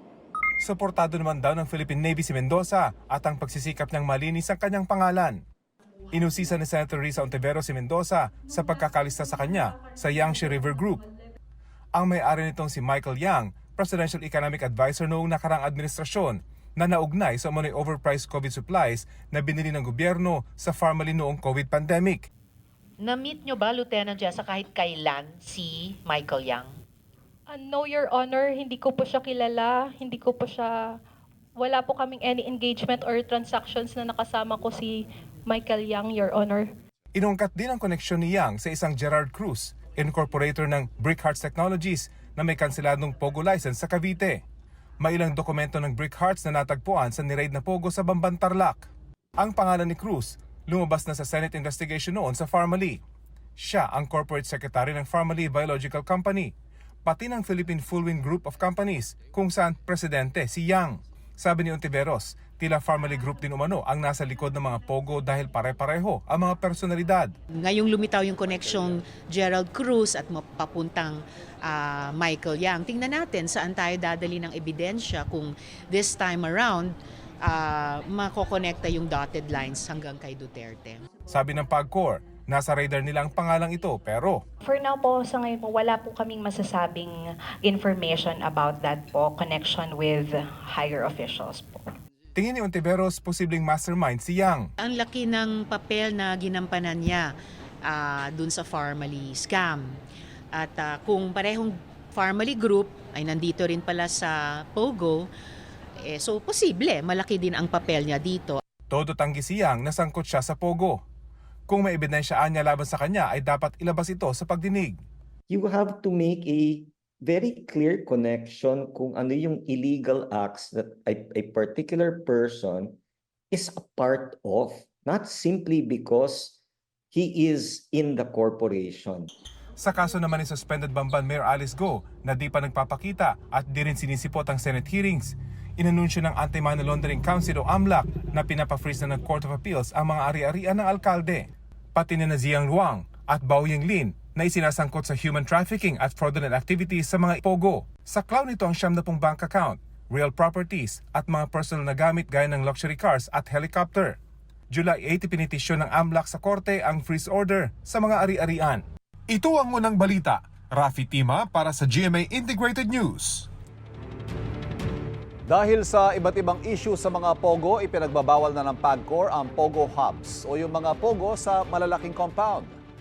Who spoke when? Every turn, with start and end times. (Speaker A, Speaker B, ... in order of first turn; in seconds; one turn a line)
Speaker A: 0.6-5.4
Speaker A: 6.1-11.0
Speaker B: 8.7-11.1
Speaker A: 12.0-22.3
Speaker B: 27.5-30.8
Speaker B: 31.6-36.7
Speaker A: 37.2-44.4
Speaker A: 45.0-53.0
Speaker A: 53.6-56.5
Speaker A: 57.1-67.3
Speaker C: 67.6-81.0
Speaker A: 81.3-84.4
Speaker D: 84.6-91.9
Speaker A: 92.4-94.7
Speaker C: 94.8-97.3
Speaker C: 97.8-100.0
Speaker C: 100.5-105.3
Speaker C: 106.0-108.6
Speaker A: 108.9-111.0
Speaker A: 111.7-115.0
Speaker E: 115.5-123.0
Speaker E: 123.5-126.6
Speaker E: 127.1-129.3
Speaker A: 129.8-154.2
Speaker A: 154.7-163.5
Speaker F: 165.5-172.8